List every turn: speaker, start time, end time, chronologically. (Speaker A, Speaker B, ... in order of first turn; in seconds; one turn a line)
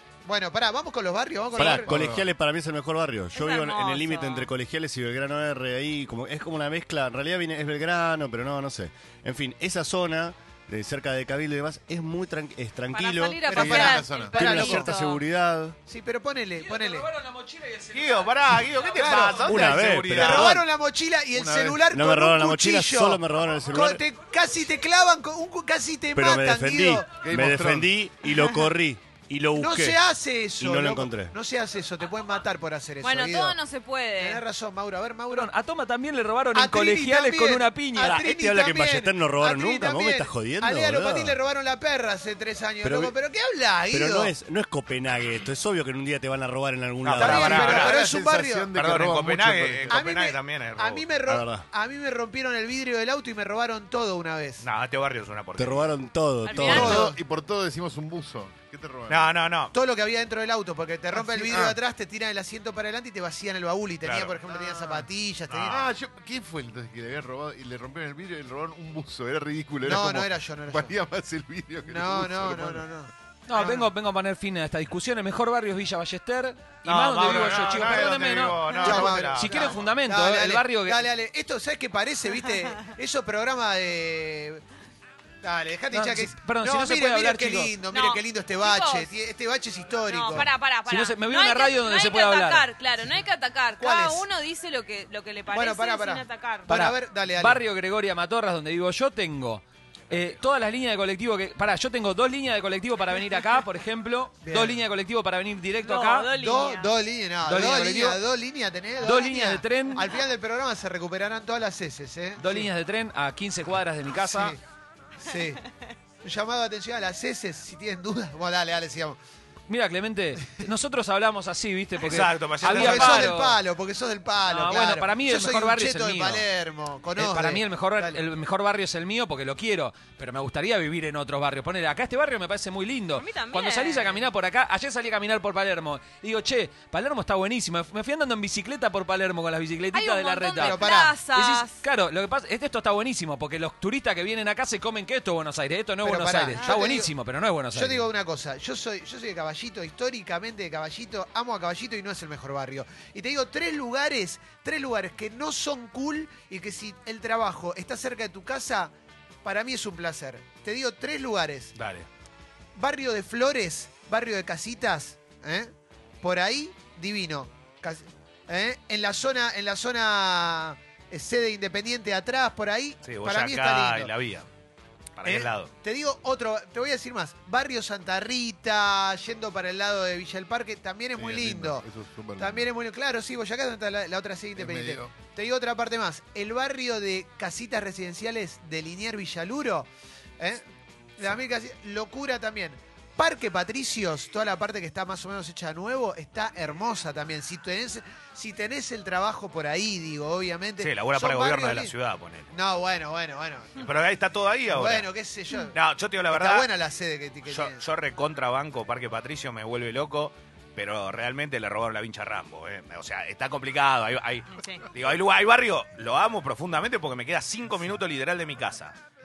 Speaker A: 0.2-1.9
Speaker B: 1.6-15.8
Speaker C: 1.6-2.3
Speaker D: 3.3-4.5
Speaker D: 12.9-15.2
Speaker A: 13.5-14.9
Speaker C: 13.5-14.5
Speaker A: 15.9-17.1
Speaker E: 16.6-19.4
Speaker F: 17.9-20.6
Speaker A: 19.0-27.2
Speaker B: 19.4-20.6
Speaker C: 21.3-21.8
Speaker B: 21.9-24.0
Speaker B: 26.1-30.0
Speaker C: 27.2-27.9
Speaker A: 29.6-33.6
Speaker B: 30.6-31.3
Speaker D: 33.0-34.4
Speaker A: 34.2-35.5
Speaker E: 35.3-38.2
Speaker A: 36.5-44.3
Speaker B: 38.0-41.4
Speaker B: 42.8-43.1
Speaker B: 43.9-47.8
Speaker F: 47.0-48.0
Speaker A: 47.2-48.7
Speaker C: 47.4-50.0
Speaker F: 48.7-51.1
Speaker A: 49.9-54.7
Speaker B: 51.3-51.7
Speaker F: 54.6-55.9
Speaker B: 55.6-57.1
Speaker D: 56.4-57.0
Speaker A: 56.6-57.2
Speaker C: 56.6-59.3
Speaker F: 59.1-59.8
Speaker A: 59.7-65.9
Speaker C: 61.1-61.8
Speaker F: 64.0-64.4
Speaker F: 65.5-65.8
Speaker C: 65.7-72.9
Speaker A: 69.8-70.9
Speaker A: 71.9-73.9
Speaker E: 73.5-81.0
Speaker F: 76.8-79.8
Speaker A: 78.8-84.6
Speaker A: 85.4-90.5
Speaker E: 85.9-87.7
Speaker D: 87.9-89.1
Speaker D: 90.0-96.7
Speaker E: 90.9-92.7
Speaker A: 93.8-94.3
Speaker A: 95.5-97.6
Speaker E: 96.7-106.3
Speaker A: 104.4-104.8
Speaker D: 105.8-107.0
Speaker A: 106.3-112.7
Speaker E: 107.5-108.2
Speaker E: 109.0-110.1
Speaker E: 112.4-114.5
Speaker A: 114.2-114.6
Speaker A: 115.2-115.6
Speaker A: 116.2-119.2
Speaker E: 119.7-123.6
Speaker F: 122.0-123.4
Speaker A: 122.6-128.2
Speaker E: 124.5-126.5
Speaker E: 127.2-148.1
Speaker D: 133.2-134.2
Speaker D: 139.9-141.8
Speaker A: 140.6-141.2
Speaker A: 146.0-147.1
Speaker D: 146.6-146.8
Speaker A: 147.7-158.9
Speaker A: 159.4-161.7
Speaker F: 161.8-162.1
Speaker A: 162.8-174.1
Speaker F: 173.1-174.5
Speaker F: 175.2-175.7
Speaker A: 175.2-181.8
Speaker C: 181.2-182.7
Speaker A: 182.4-189.9
Speaker C: 184.6-185.1
Speaker A: 190.4-190.7
Speaker A: 191.2-201.9
Speaker F: 200.8-202.5
Speaker A: 202.5-203.9
Speaker F: 203.8-205.1
Speaker A: 204.7-205.8
Speaker F: 205.7-206.7
Speaker A: 206.3-207.8
Speaker F: 207.5-219.0
Speaker D: 214.5-214.9